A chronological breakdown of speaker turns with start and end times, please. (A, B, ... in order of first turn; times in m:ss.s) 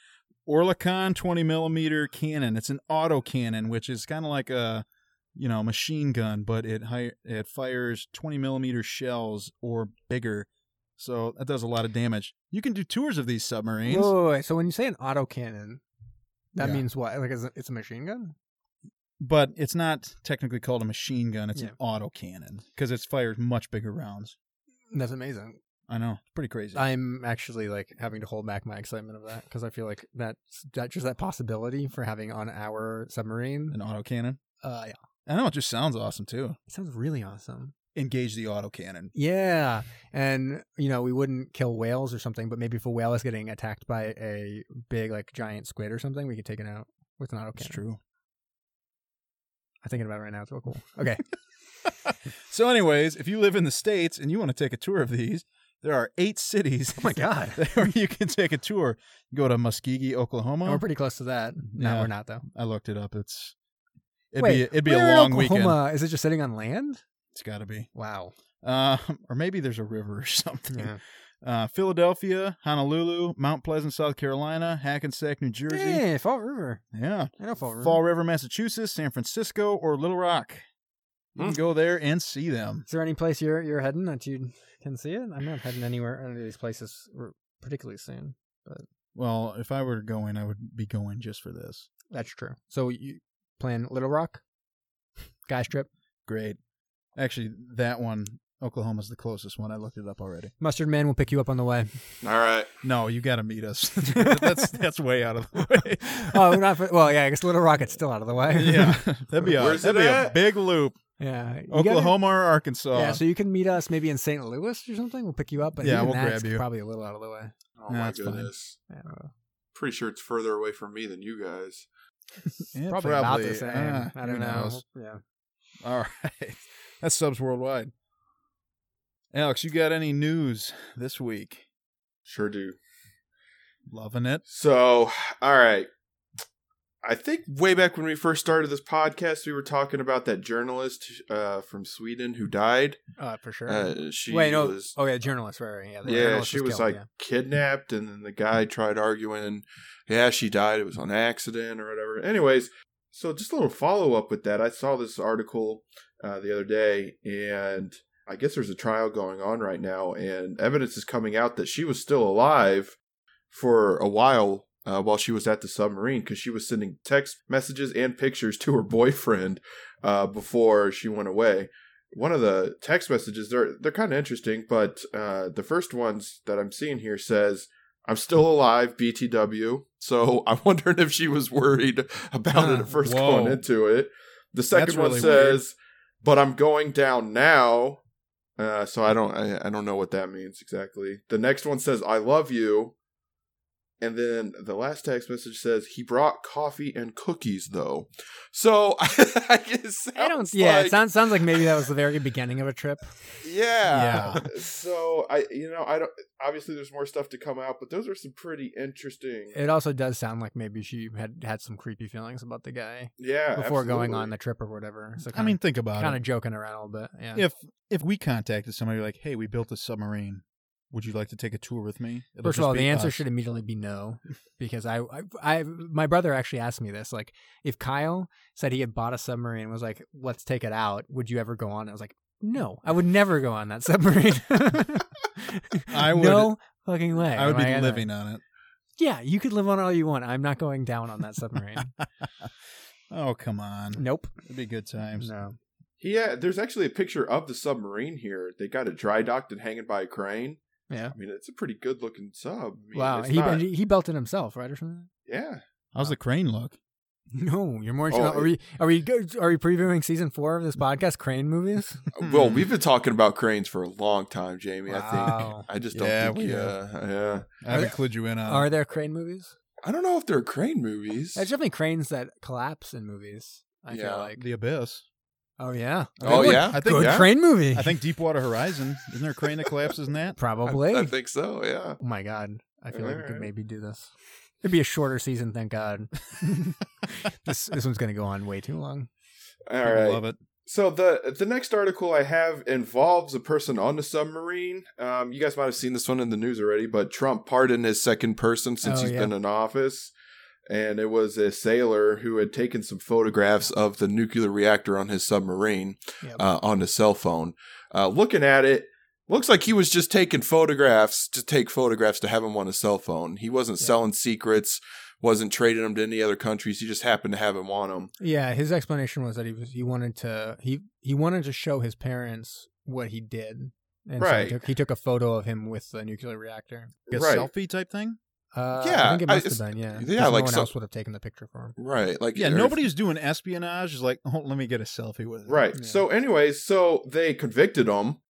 0:00.4-0:14.1 A
0:13.8-0:15.8 B
0:16.5-0:18.3 B
0:19.2-0:24.3 A
0:24.9-0:25.6 B
0:25.9-0:26.8 A
0:26.7-0:33.8 B
0:33.7-0:34.4 A
0:34.6-0:35.0 B
0:35.2-0:36.6 A
0:36.7-0:37.7 B
0:37.9-0:39.1 A
0:39.1-0:47.8 B
0:47.6-0:48.0 A
0:49.8-0:51.2 B
0:52.0-1:00.8 A
0:57.0-0:57.6 B
1:00.6-1:02.4 B
1:01.7-1:03.5 A
1:04.3-1:05.8 A
1:04.4-1:07.0 B
1:07.3-1:07.9 A
1:07.9-1:08.3 B
1:08.6-1:16.0 A
1:10.7-1:11.0 B
1:15.7-1:16.8 B
1:16.9-1:20.6 A
1:17.4-1:18.0 B
1:21.4-1:22.9 A
1:22.9-1:28.8 B
1:29.1-1:31.9 A
1:32.1-1:34.4 B
1:35.4-1:35.9 B
1:36.3-1:36.6 A
1:37.2-1:40.5 A
1:40.6-1:42.0 B
1:42.2-1:42.7 C
1:42.8-1:46.6 A
1:44.1-1:44.7 B
1:46.0-1:49.5 B
1:48.5-1:51.0 A
1:49.6-1:50.4 C
1:51.2-1:52.2 B
1:51.7-1:53.2 A
1:52.9-1:57.5 B
1:55.8-1:56.6 A
1:57.8-1:58.8 C
1:57.9-1:58.5 A
1:58.9-1:59.3 B
1:59.7-2:01.9 C
2:02.7-2:04.8 A
2:02.9-2:05.2 B
2:05.8-2:07.9 A
2:09.3-2:11.6 A
2:12.3-2:12.8 C
2:13.9-2:14.4 A
2:14.5-2:15.9 C
2:17.0-2:23.0 C
2:23.2-2:27.0 B
2:23.7-2:24.9 C
2:26.0-2:43.0 C
2:43.5-3:08.0 C
3:02.6-3:02.9 B
3:02.9-3:03.6 A
3:04.7-3:05.6 A
3:08.6-3:12.9 C
3:14.0-3:21.9 C
3:20.2-3:23.1 B
3:23.4-3:29.6 C
3:23.9-3:24.4 A
3:29.5-3:37.4 B
3:33.2-3:34.3 C
3:35.3-3:36.2 A
3:37.3-3:43.2 A
3:42.4-3:58.1 B
3:55.9-3:56.6 A
3:57.3-3:58.4 A
3:59.0-4:01.9 B
4:03.1-4:05.3 A
4:04.0-4:04.3 B
4:05.2-4:05.6 B
4:06.0-4:13.6 C
4:10.9-4:11.1 B
4:12.9-4:15.1 B
4:15.3-4:15.6 C
4:15.9-4:16.8 A
4:17.3-4:22.0 B
4:18.1-4:18.5 C
4:22.1-4:27.5 C
4:22.2-4:22.6 A
4:24.9-4:25.6 B
4:25.9-4:26.7 A
4:27.6-4:28.7 A
4:27.7-4:29.5 B
4:29.8-4:31.4 C
4:31.4-4:34.4 B
4:33.9-4:34.3 C
4:34.4-4:35.0 A
4:35.6-4:38.0 B
4:36.2-4:40.4 A
4:36.2-4:37.3 C
4:40.4-4:41.1 B
4:40.6-4:42.0 C
4:42.0-4:49.1 B
4:42.9-4:43.5 C
4:49.7-5:00.1 C
4:49.8-4:50.4 A
4:58.8-4:59.3 B
5:00.7-5:18.1 C
5:18.2-5:27.0 B
5:24.2-5:24.6 C
5:27.1-5:27.5 C
5:27.1-5:28.2 A
5:28.5-5:31.8 B
5:28.8-5:30.7 C
5:31.8-5:32.8 C
5:32.4-5:35.6 A
5:35.5-5:38.2 C
5:35.8-5:36.0 B